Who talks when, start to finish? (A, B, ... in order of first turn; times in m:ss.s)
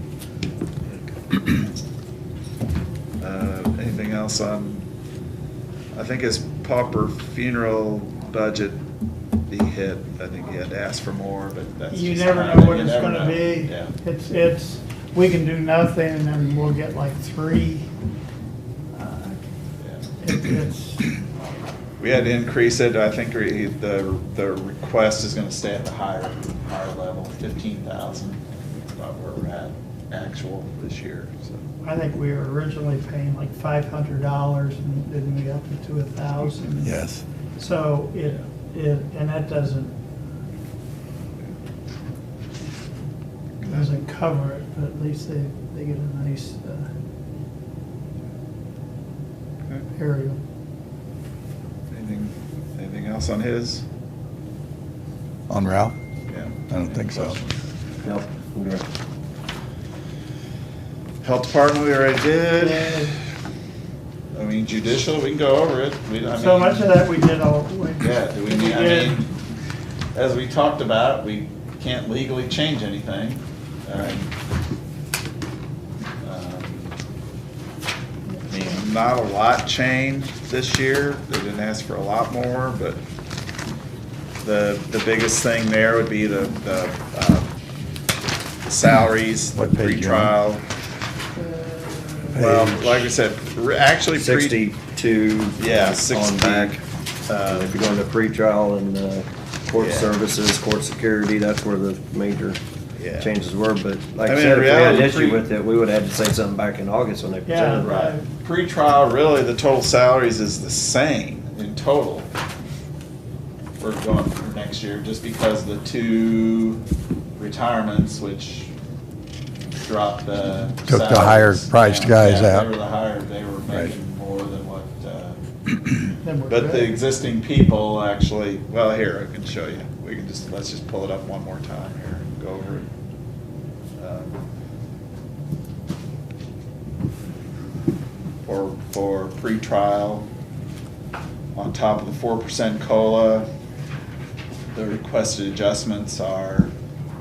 0:03.2-0:04.8 A
0:05.9-0:08.8 A
0:09.5-0:13.9 A
0:11.9-0:17.8 B
0:18.9-0:19.4 B
0:19.8-0:20.1 A
0:20.2-0:21.2 B
0:22.0-0:31.6 A
0:31.8-0:37.0 B
0:36.8-0:37.2 C
0:37.6-0:39.9 B
0:43.6-0:43.9 A
0:43.6-0:46.9 B
0:50.0-0:50.4 B
0:51.9-0:53.8 A
0:55.5-0:55.9 C
0:56.3-0:58.2 A
0:56.7-0:57.4 C
0:58.0-0:58.8 D
1:01.2-1:03.2 A
1:02.5-1:03.2 B
1:04.3-1:06.9 A
1:06.3-1:09.2 B
1:08.0-1:09.3 A
1:10.1-1:14.3 A
1:16.2-1:16.9 A
1:18.4-1:18.8 B
1:18.5-1:23.0 A
1:24.4-1:27.5 A
1:28.7-1:30.6 A
1:29.5-1:30.3 C
1:31.4-1:32.3 B
1:32.3-1:33.0 C
1:32.3-1:34.6 A
1:34.1-1:36.8 D
1:35.6-1:37.7 A
1:37.5-1:42.6 D
1:39.8-1:40.2 A
1:43.0-1:43.3 A
1:43.2-1:48.1 D
1:44.2-1:45.5 A
1:47.4-1:48.3 B
1:47.8-1:52.3 A
1:53.8-1:56.8 A
1:57.4-1:58.7 A
1:59.7-2:12.9 A
2:00.9-2:02.7 C
2:03.7-2:03.9 C
2:06.2-2:07.0 B
2:14.0-2:14.4 A
2:18.4-2:20.3 A
2:21.5-2:23.5 A
2:24.7-2:26.7 A